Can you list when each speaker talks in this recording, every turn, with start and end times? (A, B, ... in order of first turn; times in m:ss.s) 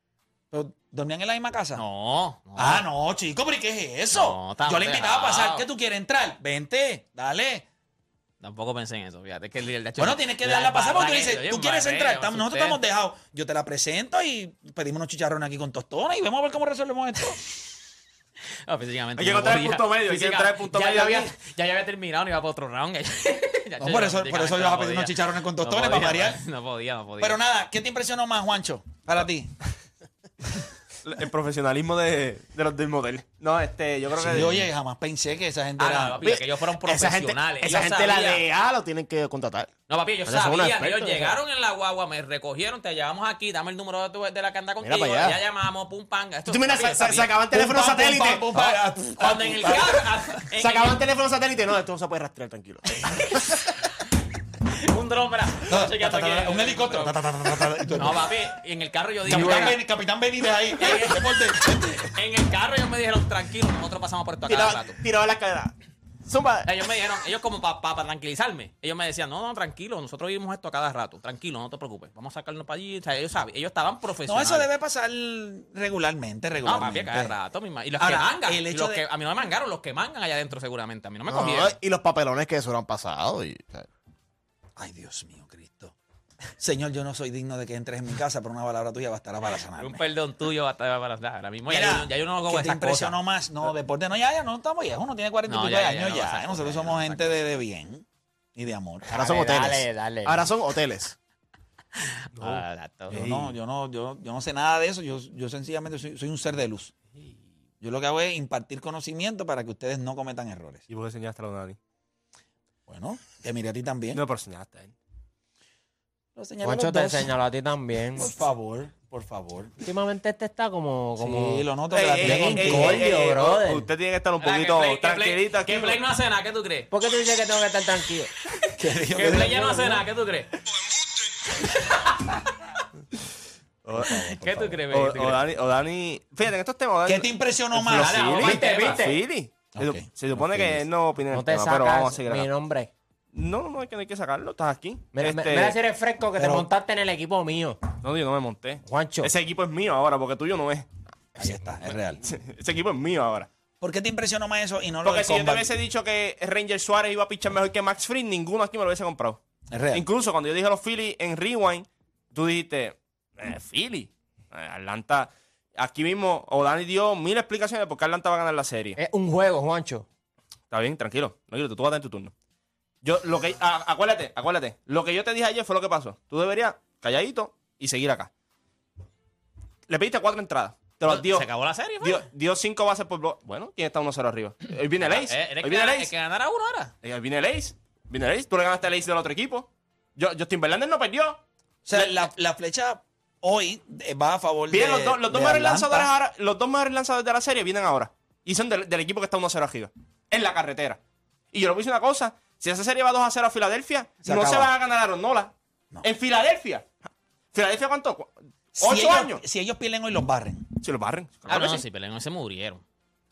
0:00.5-0:01.8 A
0:01.8-0:02.8 B
0:02.6-0:07.6 A
0:04.1-0:05.6 B
0:08.4-0:12.8 B
0:10.0-0:17.4 A
0:18.7-0:27.4 B
0:19.2-0:21.3 C
0:23.8-0:26.4 A
0:27.2-0:29.5 A
0:31.0-0:34.7 C
0:34.2-0:36.2 A
0:35.8-0:38.4 B
0:36.2-0:39.7 D
0:39.9-0:47.3 B
0:40.2-0:41.4 D
0:44.8-0:45.4 D
0:46.4-0:48.6 D
0:47.5-0:50.0 A
0:49.2-0:51.0 B
0:50.6-0:53.6 D
0:53.1-0:53.4 B
0:54.8-0:57.2 B
0:55.7-0:58.4 A
0:57.9-0:59.8 B
0:59.2-1:02.1 A
1:00.8-1:01.3 B
1:02.1-1:05.0 B
1:04.5-1:05.7 D
1:06.3-1:06.6 D
1:06.6-1:14.7 B
1:14.3-1:17.3 A
1:16.6-1:21.8 B
1:18.0-1:19.0 A
1:21.3-1:23.9 D
1:24.8-1:25.9 A
1:26.6-1:30.0 A
1:29.7-1:33.2 B
1:31.7-1:39.2 A
1:35.5-1:37.4 B
1:39.1-1:41.2 D
1:39.1-1:40.4 E
1:42.3-1:43.2 B
1:43.1-1:46.9 A
1:43.1-1:43.5 C
1:47.8-1:50.8 A
1:50.9-1:51.8 C
1:52.9-1:54.2 A
1:54.1-1:54.9 C
1:56.4-1:57.3 A
1:56.6-1:58.3 E
1:58.2-1:59.7 A
1:59.8-2:03.9 E
2:01.2-2:03.1 A
2:01.9-2:06.0 C
2:04.4-2:06.9 B
2:06.9-2:08.3 E
2:08.8-2:09.8 A
2:09.1-2:10.5 B
2:09.3-2:10.0 E
2:11.8-2:12.4 B
2:13.8-2:14.4 C
2:14.1-2:15.4 B
2:14.5-2:14.8 A
2:14.9-2:22.5 C
2:17.0-2:18.6 A
2:18.0-2:19.0 B
2:18.2-2:19.2 E
2:19.7-2:20.8 A
2:21.3-2:22.9 E
2:23.3-2:25.8 C
2:25.1-2:27.8 E
2:26.4-2:26.7 A
2:28.0-2:30.9 C
2:28.8-2:29.3 E
2:31.4-2:32.2 A
2:32.2-2:33.5 C
2:33.8-2:35.7 A
2:35.0-2:39.4 C
2:39.7-2:40.0 A
2:39.9-2:49.0 C
2:49.0-2:50.0 E
2:50.7-2:52.3 C
2:53.0-2:58.3 C
2:59.9-3:01.5 C
3:01.0-3:02.2 B
3:02.0-3:06.1 C
3:05.0-3:06.9 B
3:07.0-3:12.2 C
3:11.8-3:16.1 A
3:14.7-3:21.0 C
3:21.5-3:26.8 C
3:24.2-3:24.7 A
3:27.5-3:29.4 C
3:28.7-3:30.7 A
3:30.8-3:31.8 C
3:31.5-3:32.8 B